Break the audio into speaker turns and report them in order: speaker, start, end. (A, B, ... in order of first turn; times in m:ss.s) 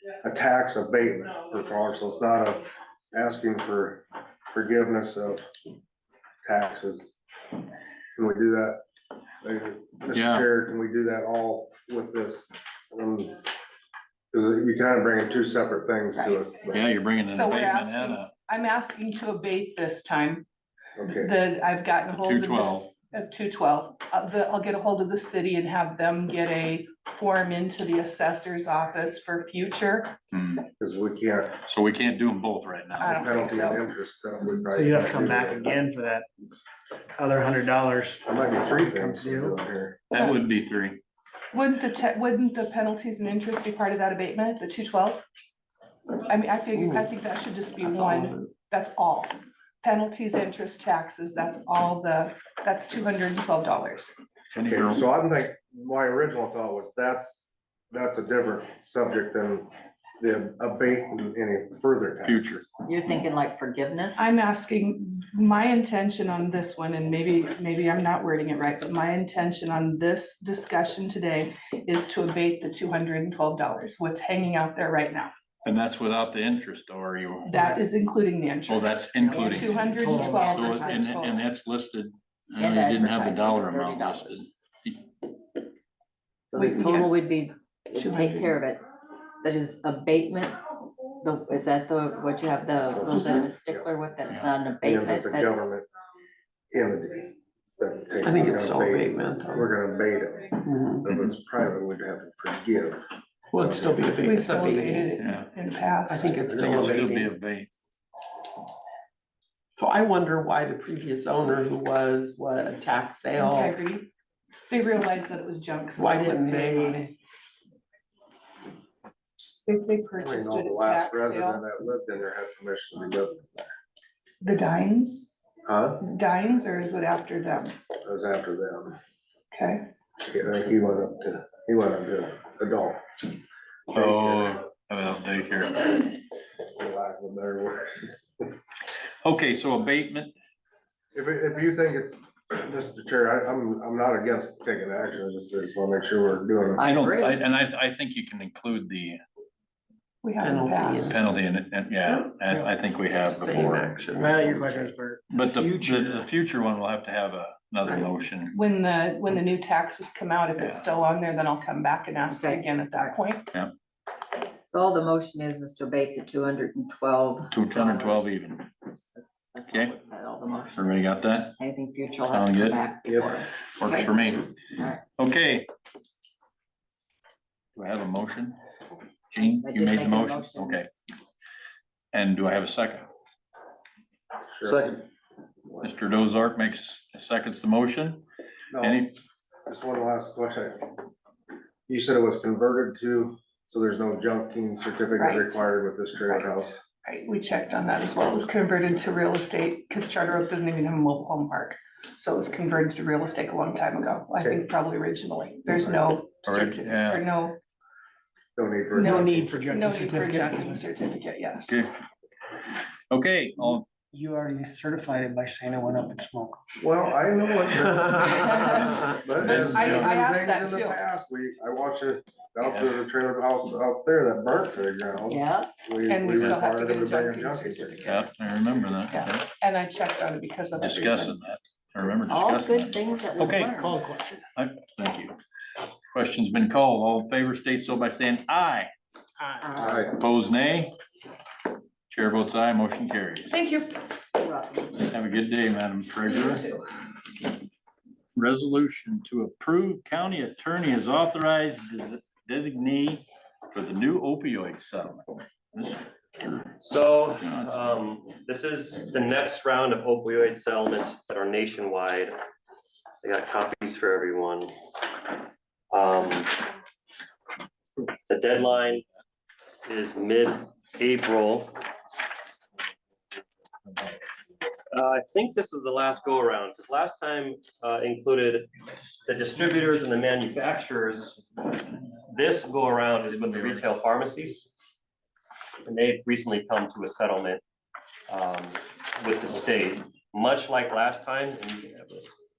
0:00.2-0:05.5 A
0:06.4-0:07.2 A
0:08.2-0:08.8 A
0:09.4-0:13.5 A
0:10.1-0:10.5 B
0:14.3-0:16.8 A
0:16.2-0:16.5 C
0:16.7-0:18.3 B
0:17.3-0:20.5 C
0:21.0-0:21.3 A
0:21.1-0:30.2 C
0:22.1-0:22.9 B
0:30.3-0:30.7 B
0:30.8-0:31.6 A
0:31.7-0:33.3 B
0:33.0-0:33.8 C
0:33.0-0:35.9 A
0:34.7-0:36.3 D
0:37.2-0:39.6 D
0:38.2-0:40.0 A
0:40.1-0:41.0 B
0:40.1-0:40.4 C
0:41.5-0:45.2 C
0:46.2-0:54.1 C
0:46.8-0:47.1 E
0:47.8-0:48.5 E
0:54.5-0:55.0 B
0:54.6-1:02.6 A
1:02.2-1:03.3 B
1:02.9-1:04.4 F
1:04.2-1:15.3 C
1:15.6-1:17.5 B
1:17.4-1:21.4 C
1:18.7-1:25.1 B
1:19.5-1:21.1 D
1:19.6-1:20.4 F
1:22.6-1:24.4 F
1:26.5-1:28.8 F
1:26.6-1:27.1 E
1:28.0-1:28.5 E
1:29.4-1:30.6 F
1:31.2-1:35.7 F
1:32.9-1:33.9 A
1:33.1-1:33.5 E
1:34.8-1:35.9 A
1:36.7-1:43.0 A
1:38.2-1:39.7 E
1:40.6-1:41.1 E
1:43.5-1:45.1 E
1:43.6-1:44.1 A
1:44.2-1:46.4 C
1:45.2-1:45.5 B
1:46.1-1:47.3 E
1:46.5-1:47.0 A
1:46.5-1:47.7 B
1:49.8-1:53.8 E
1:53.4-1:54.1 C
1:54.7-1:57.2 C
1:56.0-1:57.1 E
1:59.7-2:01.6 C
2:00.2-2:03.7 A
2:04.4-2:05.3 C
2:05.7-2:06.0 A
2:06.0-2:07.7 C
2:08.0-2:09.0 A
2:09.5-2:09.9 C
2:10.2-2:13.0 A
2:13.9-2:14.6 A
2:13.9-2:16.1 B
2:16.8-2:18.2 A
2:19.2-2:20.3 B
2:21.2-2:26.8 A
2:26.8-2:27.4 F
2:26.8-2:29.2 B
2:30.2-2:31.2 C
2:30.4-2:31.2 E
2:31.0-2:33.9 B
2:32.0-2:32.4 E
2:32.4-2:32.7 D
2:33.3-2:34.9 E
2:34.1-2:36.2 D
2:35.3-2:38.6 B
2:38.5-2:43.5 C
2:40.6-2:40.8 B
2:42.3-2:43.1 F
2:44.7-2:48.3 F
2:47.5-2:48.7 B
2:49.2-2:55.0 F
2:50.8-2:51.6 B
2:52.3-2:52.8 B
2:53.1-2:53.3 A
2:53.8-2:54.5 B
2:55.2-2:55.7 B
2:57.8-2:58.6 B
2:59.3-3:00.9 B
2:59.6-3:00.8 F
3:02.1-3:03.1 B
3:04.5-3:04.9 A
3:05.8-3:08.2 B
3:08.7-3:09.1 A
3:08.8-3:09.1 B
3:09.7-3:10.9 A
3:11.9-3:16.8 A
3:15.2-3:15.7 C
3:16.2-3:27.6 C
3:26.4-3:27.2 B
3:28.6-3:29.7 A
3:29.0-3:31.8 C
3:29.0-3:30.8 D
3:31.7-3:31.9 B
3:33.1-3:33.9 B
3:34.1-3:36.6 D
3:36.8-3:48.2 A
3:38.8-3:40.2 B
3:39.4-3:41.0 C
3:42.6-3:42.9 B
3:45.3-3:45.7 F
3:46.1-3:48.3 C
3:48.0-3:49.5 B
3:49.1-3:51.4 C
3:50.8-3:54.0 B
3:52.3-3:54.0 F
3:53.8-3:54.4 D
3:54.6-3:55.4 B
3:56.1-3:58.9 B
3:59.4-3:59.7 D
3:59.6-4:00.1 F
3:59.8-4:00.2 A
4:00.1-4:01.0 B
4:02.1-4:03.5 B
4:03.5-4:04.0 C
4:04.3-4:05.1 F
4:05.1-4:06.7 B
4:06.3-4:06.8 C
4:08.4-4:16.6 B
4:16.8-4:22.4 G
4:17.4-4:18.1 B
4:23.2-4:25.4 G
4:25.9-4:26.7 G
4:28.3-4:29.0 G
4:29.8-4:31.8 G
4:34.9-4:44.7 G
4:45.9-4:47.6 G
4:48.3-4:52.4 G